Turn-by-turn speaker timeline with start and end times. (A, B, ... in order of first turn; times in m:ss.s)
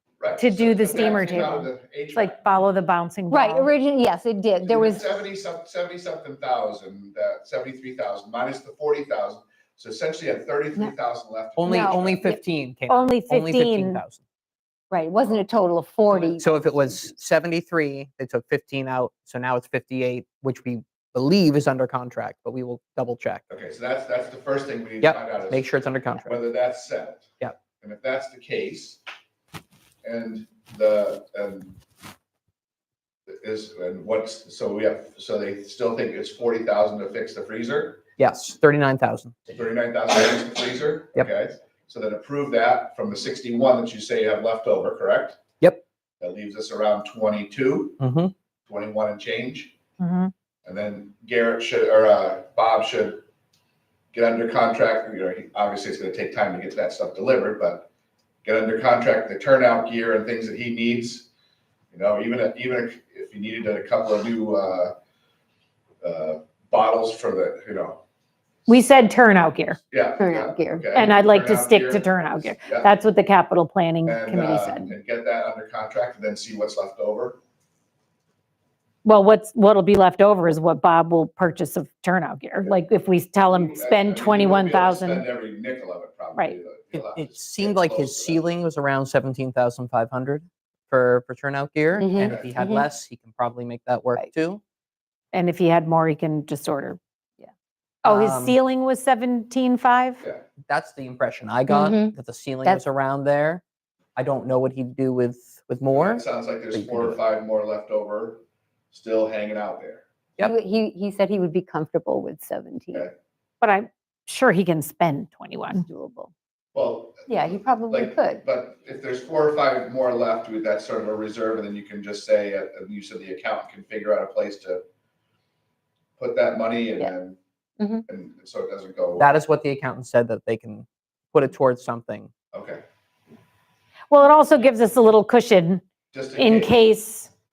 0:00.2-0:02.7 A
0:00.4-0:03.7 B
0:03.3-0:05.2 C
0:04.6-0:12.2 A
0:11.6-0:14.2 D
0:11.6-0:12.4 C
0:12.9-0:14.0 B
0:14.9-0:17.1 C
0:16.3-0:23.4 D
0:23.5-0:25.7 A
0:25.0-0:26.4 D
0:26.3-0:27.3 A
0:27.8-0:29.0 A
0:30.0-0:31.8 A
0:33.3-0:38.0 A
0:38.2-0:39.4 D
0:39.5-0:45.4 A
0:46.2-0:48.0 A
0:48.0-0:48.3 D
0:48.7-0:49.7 A
0:50.0-0:50.3 B
0:50.6-0:53.2 A
0:54.1-0:57.9 A
0:58.4-1:01.3 A
1:01.9-1:05.0 A
1:06.0-1:08.0 A
1:08.7-1:09.4 A
1:08.7-1:09.8 B
1:09.9-1:12.9 A
1:10.2-1:10.9 C
1:10.9-1:14.9 B
1:14.0-1:17.4 A
1:19.0-1:25.3 B
1:23.5-1:28.5 A
1:27.0-1:34.6 D
1:32.0-1:32.9 C
1:32.2-1:32.5 A
1:35.3-1:37.0 B
1:38.0-1:40.2 B
1:38.0-1:38.6 D
1:40.7-1:43.6 D
1:41.7-1:42.8 C
1:44.2-1:47.2 D
1:45.9-1:50.0 A
1:50.4-1:53.1 C
1:53.6-1:55.8 B
1:55.7-1:56.3 C
1:56.7-2:04.8 A
1:57.3-1:58.4 C
2:06.2-2:07.4 A
2:08.1-2:09.3 A
2:09.2-2:12.3 D
2:12.5-2:12.8 A
2:14.1-2:15.8 B
2:16.1-2:16.8 A
2:16.4-2:17.3 B